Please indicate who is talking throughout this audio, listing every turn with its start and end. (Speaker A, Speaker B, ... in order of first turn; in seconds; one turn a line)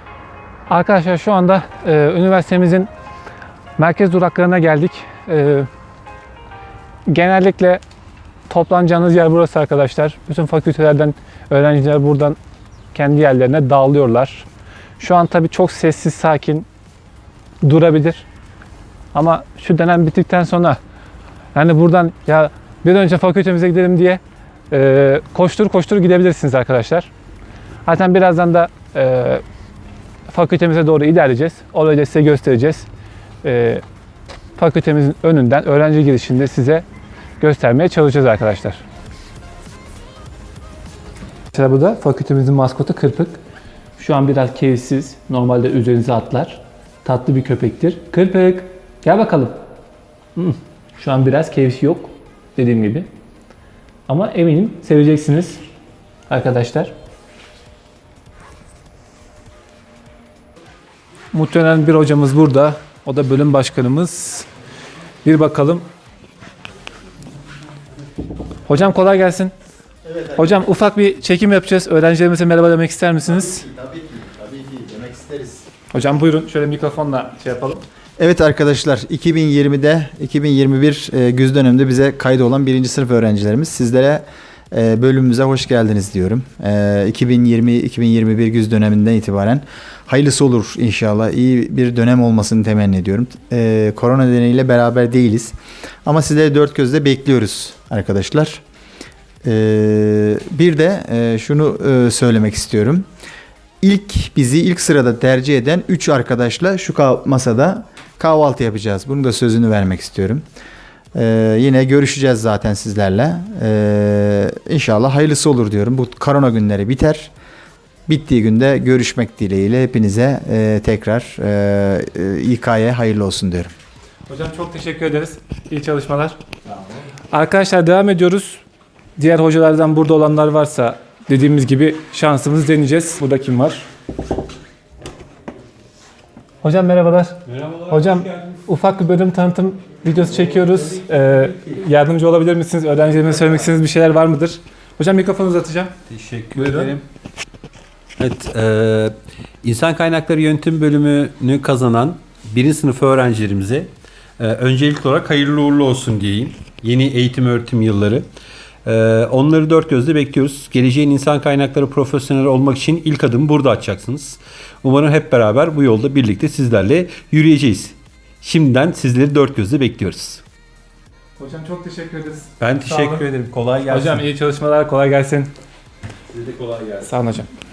Speaker A: 0.7-2.9
Speaker A: 3.8-5.7
Speaker A: 7.1-7.8
Speaker A: 8.5-12.4
Speaker A: 12.9-14.4
Speaker A: 15.0-16.7
Speaker A: 17.6-18.2
Speaker A: 19.1-20.8
Speaker A: 21.5-27.1
Speaker A: 27.8-29.4
Speaker A: 30.3-32.9
Speaker A: 33.4-33.8
Speaker A: 34.5-36.8
Speaker A: 37.4-38.8
Speaker A: 41.5-43.4
Speaker A: 44.0-49.6
Speaker A: 50.4-53.1
Speaker A: 54.1-55.6
Speaker A: 56.3-56.9
Speaker A: 61.3-64.5
Speaker A: 65.2-65.8
Speaker A: 68.7-69.5
Speaker B: 70.0-70.4
Speaker A: 70.3-73.7
Speaker B: 73.3-75.7
Speaker A: 75.9-77.8
Speaker B: 78.2-98.6
Speaker B: 99.4-103.1
Speaker B: 103.8-110.4
Speaker B: 111.2-117.3
Speaker B: 118.1-123.7
Speaker A: 124.3-126.4
Speaker A: 127.3-128.6
Speaker A: 129.2-133.8
Speaker A: 136.6-145.9
Speaker C: 137.5-138.6
Speaker C: 140.7-141.0
Speaker C: 146.1-147.0
Speaker A: 146.5-146.9
Speaker C: 148.2-158.3
Speaker C: 158.8-170.4
Speaker A: 171.4-173.2
Speaker C: 172.6-174.2
Speaker A: 173.9-175.5
Speaker C: 176.3-177.1
Speaker A: 177.0-177.5